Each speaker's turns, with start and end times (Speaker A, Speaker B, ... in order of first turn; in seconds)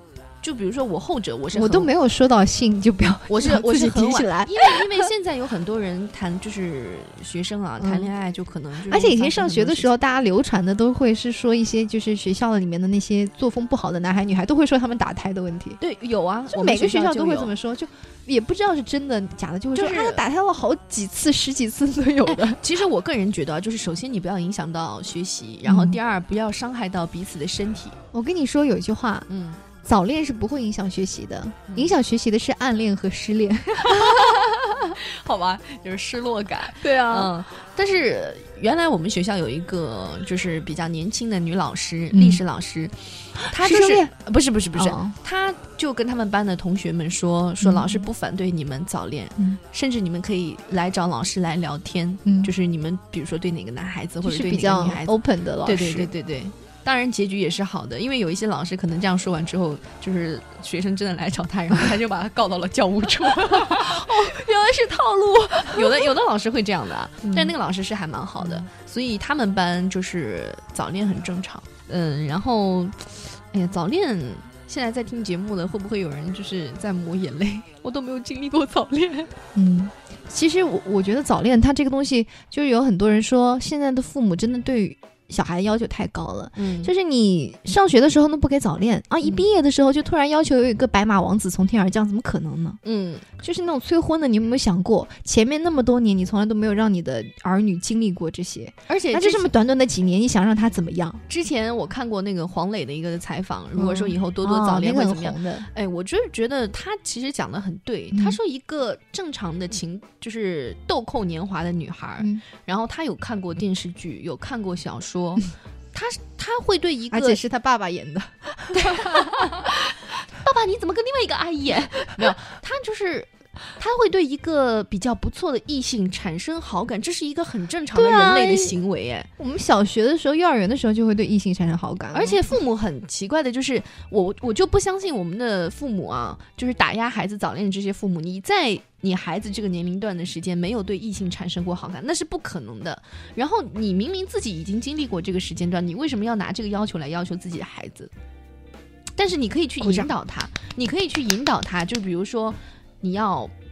Speaker A: 0.4-1.9, 3.3-9.9, 15.8-17.5, 19.7-20.2, 22.2-28.0, 29.3-29.6, 33.9-79.3, 86.6-86.9, 92.8-93.3, 98.9-99.5, 101.3-117.4, 118.8-129.3, 132.1-148.1, 149.2-153.5
Speaker B: 1.5-5.0, 7.8-8.1, 8.9-15.8, 16.5-22.6, 25.6-26.0, 28.1-29.3, 29.9-34.8, 36.8-37.3, 42.1-42.4, 43.5-44.1, 44.8-45.2, 47.6-48.1, 52.3-52.5, 54.2-56.1, 63.5-64.3, 67.2-67.5, 68.4-68.7, 79.5-92.8, 93.4-101.2, 103.8-105.7, 108.1-108.4, 117.1-119.5, 127.9-128.7, 129.4-132.4, 149.8-150.1